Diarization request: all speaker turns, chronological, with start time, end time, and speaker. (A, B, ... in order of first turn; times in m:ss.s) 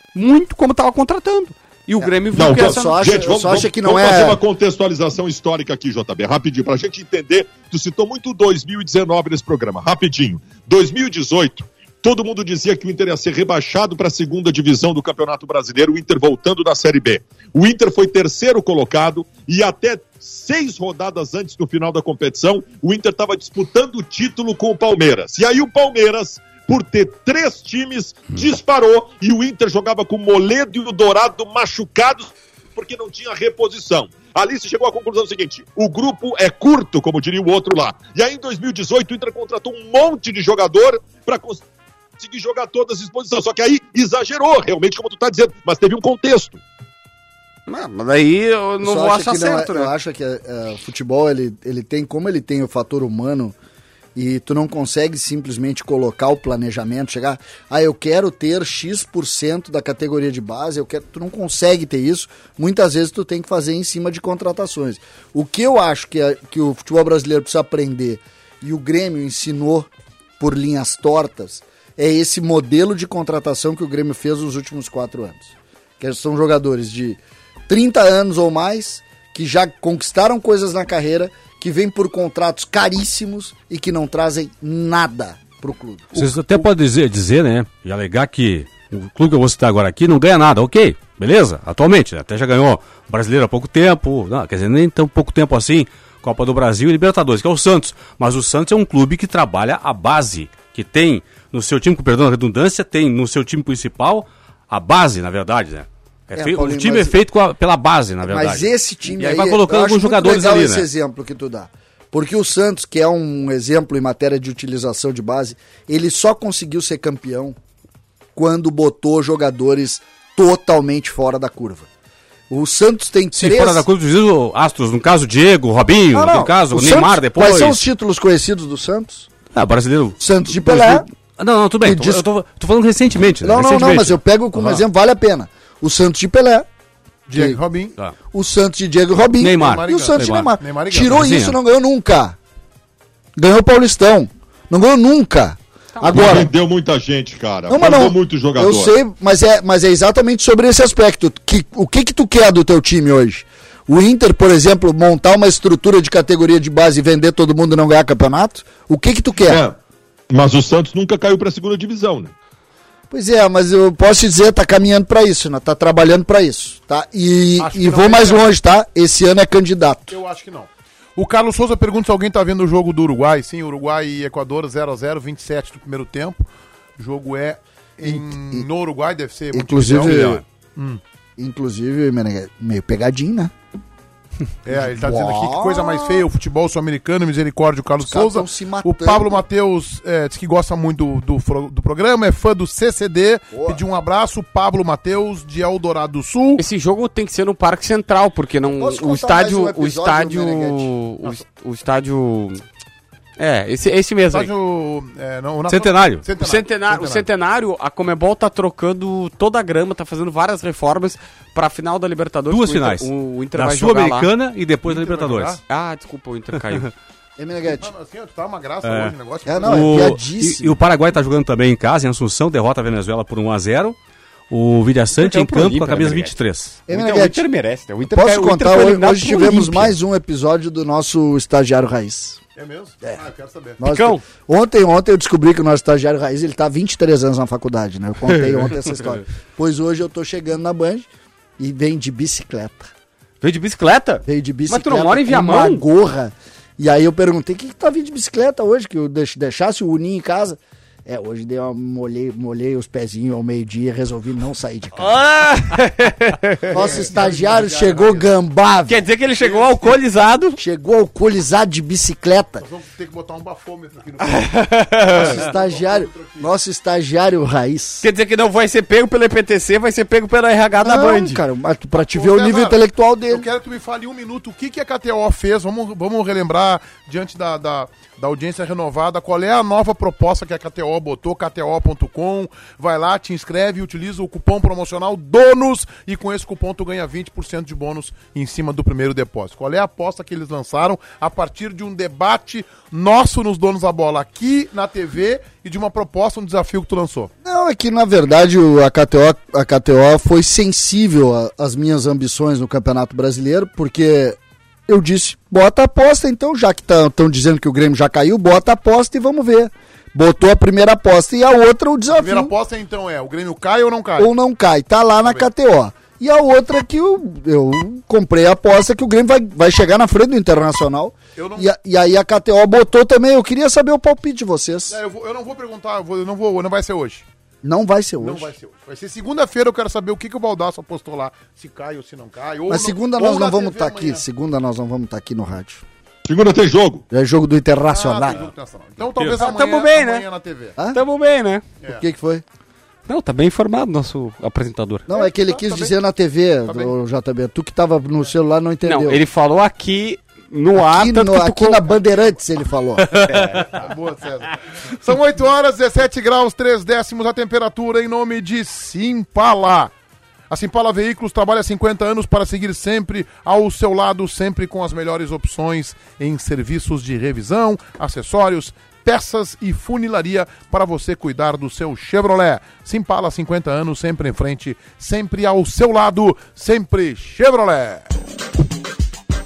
0:00.2-0:03.4 A
0:02.0-0:04.4 B
0:02.3-0:41.6 C
0:42.2-0:46.6 C
0:47.7-0:49.9 A
0:48.8-0:53.6 B
0:54.2-1:26.7 B
1:26.1-1:50.8 D
1:46.4-1:47.2 B
1:48.2-1:57.6 B
1:58.4-2:01.9 B
2:02.5-2:03.9 B
2:03.4-2:07.8 D
2:06.1-2:09.3 B
2:09.5-2:14.8 D
2:10.2-2:11.1 B
2:11.8-2:12.3 B
2:13.4-2:16.7 B
2:17.3-2:18.0 E
2:17.4-2:17.6 B
2:18.3-2:22.4 B
2:19.4-2:20.5 D
2:19.6-2:21.2 E
2:21.1-2:21.6 D
2:23.4-2:26.5 B
2:26.0-2:28.9 C
2:27.7-2:39.6 B
2:39.4-2:39.8 C
2:40.3-2:42.3 C
2:43.1-2:50.2 B
2:47.6-2:48.5 E
2:50.1-2:56.5 E
2:57.0-3:01.0 E
2:58.0-2:58.7 B
2:59.5-3:00.4 B
2:59.9-3:00.4 D
3:01.4-3:03.5 B
3:04.6-3:16.6 E
3:04.7-3:06.3 B
3:08.0-3:09.4 B
3:13.5-3:13.8 B
3:16.6-3:22.6 A
3:18.8-3:20.9 B
3:23.4-3:24.5 A
3:24.3-3:27.3 E
3:25.7-3:26.2 D
3:26.4-3:34.3 A
3:32.5-3:35.6 D
3:34.8-3:35.6 E
3:35.7-3:36.9 A
3:37.4-3:37.9 B
3:37.8-3:40.1 E
3:38.8-3:44.0 D
3:39.5-3:40.8 B
3:44.5-3:46.8 D
3:45.2-3:46.4 A
3:46.9-3:47.5 B
3:46.9-3:50.0 A
3:48.1-3:52.4 B
3:52.6-3:53.8 E
3:53.8-4:01.1 B
3:53.8-3:54.2 A
4:01.6-4:02.9 B
4:03.4-4:05.8 A
4:04.3-4:15.2 B
4:15.0-4:17.0 A
4:16.7-4:18.3 E
4:16.7-4:19.1 B
4:18.9-4:20.6 A
4:19.4-4:20.0 E
4:20.6-4:22.6 B
4:22.6-4:26.5 E
4:24.3-4:25.4 A
4:25.1-4:28.1 B
4:28.0-4:31.4 A
4:30.8-4:33.5 B
4:32.0-4:57.3 E
4:57.4-5:12.5 B
5:12.1-5:14.3 E
5:14.2-5:25.0 B
5:21.4-5:21.7 E
5:24.9-5:27.3 E
5:27.6-5:28.5 B
5:28.2-5:34.2 E
5:32.7-5:35.8 B
5:36.2-5:37.0 C
5:37.1-5:38.5 B
5:37.9-5:40.8 E
5:39.2-5:40.3 A
5:40.9-5:41.6 A
5:41.9-5:42.4 B
5:43.1-5:45.1 A
5:45.1-5:45.9 E
5:45.1-5:49.2 B
5:46.7-5:46.9 E
5:48.8-5:51.9 A
5:50.8-5:53.3 B
5:53.2-5:53.6 D
5:53.6-5:59.9 E
6:00.5-6:18.1 E